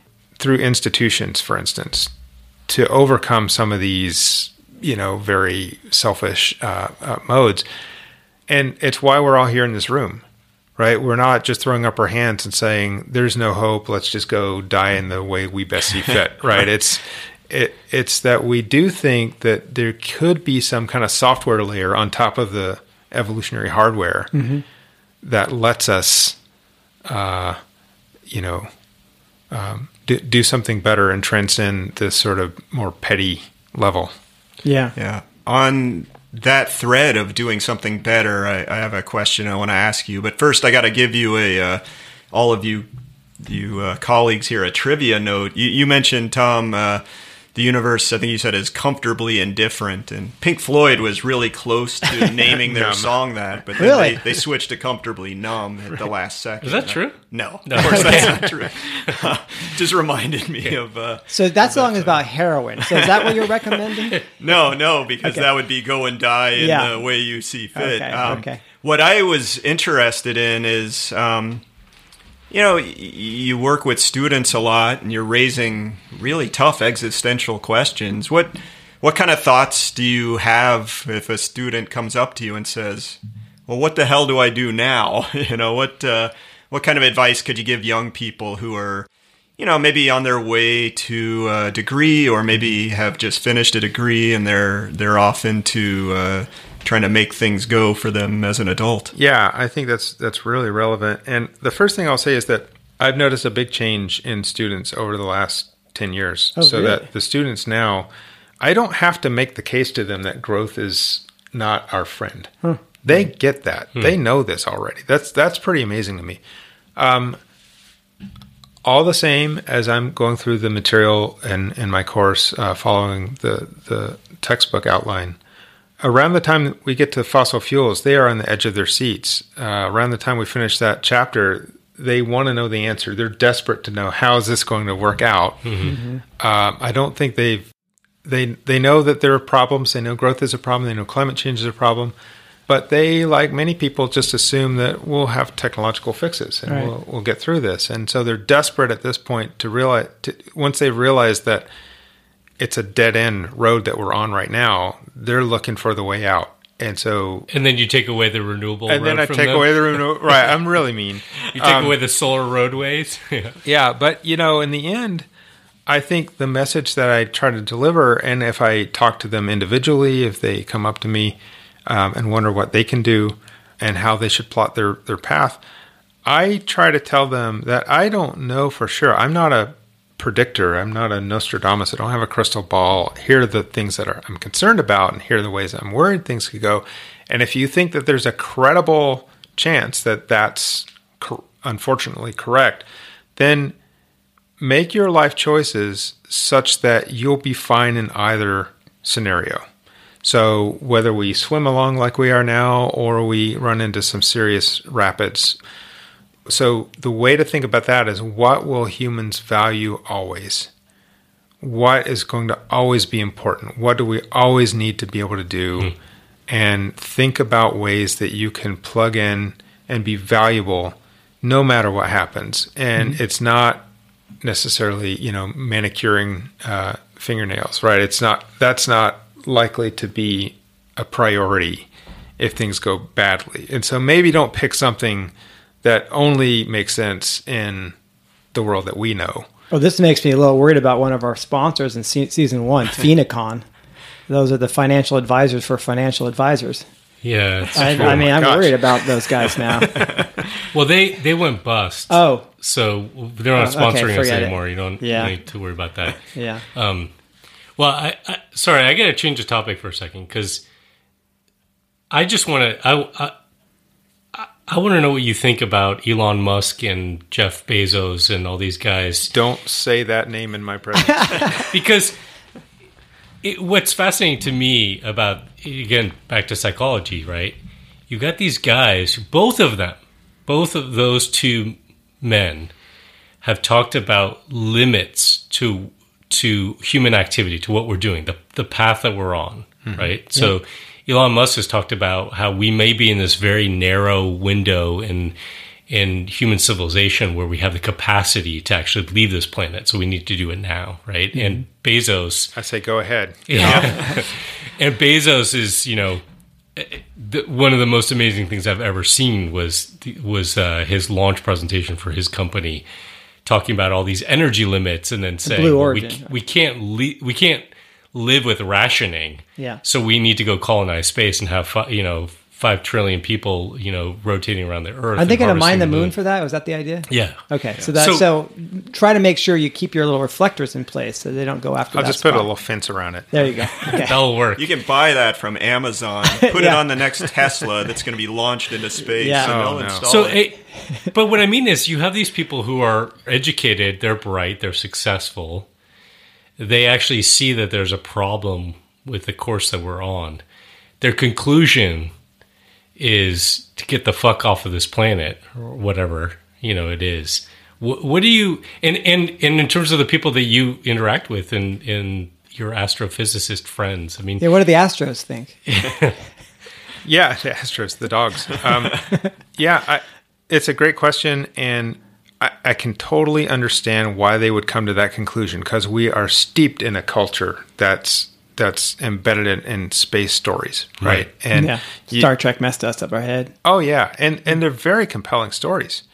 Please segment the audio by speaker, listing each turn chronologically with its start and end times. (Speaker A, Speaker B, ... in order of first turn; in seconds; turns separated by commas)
Speaker A: 0.4-2.1, Speaker A: 2.7-7.6, Speaker A: 8.5-10.2, Speaker A: 10.8-24.3, Speaker B: 24.3-24.6, Speaker A: 25.2-26.4, Speaker A: 27.1-27.6, Speaker A: 28.3-28.7, Speaker A: 29.5-34.1, Speaker B: 34.6-34.9, Speaker C: 35.0-42.9, Speaker C: 43.4-47.0, Speaker C: 47.5-62.2, Speaker A: 52.7-53.1, Speaker B: 53.8-54.2, Speaker D: 56.6-58.5, Speaker B: 57.9-58.3, Speaker B: 61.3-64.2, Speaker C: 62.8-63.5, Speaker C: 64.4-71.6, Speaker B: 66.6-66.9, Speaker B: 67.8-68.6, Speaker C: 72.5-99.1, Speaker A: 99.2-108.1, Speaker B: 106.6-107.0, Speaker A: 108.6-116.4, Speaker A: 117.0-117.4, Speaker A: 118.8-125.4, Speaker A: 126.0-137.7, Speaker D: 135.7-135.9, Speaker B: 135.8-136.2, Speaker A: 138.2-142.1, Speaker A: 142.7-151.7, Speaker A: 152.6-157.5, Speaker D: 157.5-160.4, Speaker A: 158.9-162.0, Speaker D: 161.5-163.6, Speaker A: 163.6-165.3, Speaker A: 165.9-175.6, Speaker A: 176.2-193.8, Speaker A: 194.6-199.6, Speaker A: 200.2-205.6, Speaker A: 206.5-210.7, Speaker A: 211.6-215.9, Speaker A: 216.5-223.8, Speaker A: 224.4-231.9, Speaker A: 232.4-237.9, Speaker A: 238.5-239.5, Speaker B: 239.7-243.7, Speaker B: 244.3-246.8, Speaker D: 247.2-248.3, Speaker B: 247.8-249.9, Speaker A: 247.8-248.9, Speaker D: 250.7-257.1, Speaker B: 252.1-252.5, Speaker B: 253.6-255.3, Speaker B: 256.3-256.6, Speaker D: 257.8-260.6, Speaker D: 262.1-263.3, Speaker D: 264.3-269.3, Speaker A: 269.3-271.6, Speaker B: 271.1-271.5, Speaker D: 271.6-272.2, Speaker D: 273.4-277.6, Speaker D: 278.1-282.7, Speaker D: 283.4-295.4, Speaker D: 295.9-302.5, Speaker B: 301.4-301.6, Speaker A: 302.6-304.2, Speaker D: 303.5-306.2, Speaker D: 306.8-312.8, Speaker D: 313.4-326.1, Speaker B: 315.4-316.3, Speaker B: 325.2-332.5, Speaker D: 327.1-327.4, Speaker D: 327.9-328.2, Speaker A: 331.9-333.3, Speaker B: 333.3-334.2, Speaker D: 333.9-334.6, Speaker C: 334.6-340.4, Speaker B: 336.3-336.9, Speaker B: 339.2-339.8, Speaker A: 339.4-340.1, Speaker D: 340.1-345.7, Speaker D: 346.6-350.4, Speaker D: 351.0-352.1, Speaker D: 353.0-364.5, Speaker B: 364.4-365.7, Speaker D: 365.7-366.1, Speaker A: 367.0-382.3, Speaker B: 381.5-383.5, Speaker A: 383.6-386.0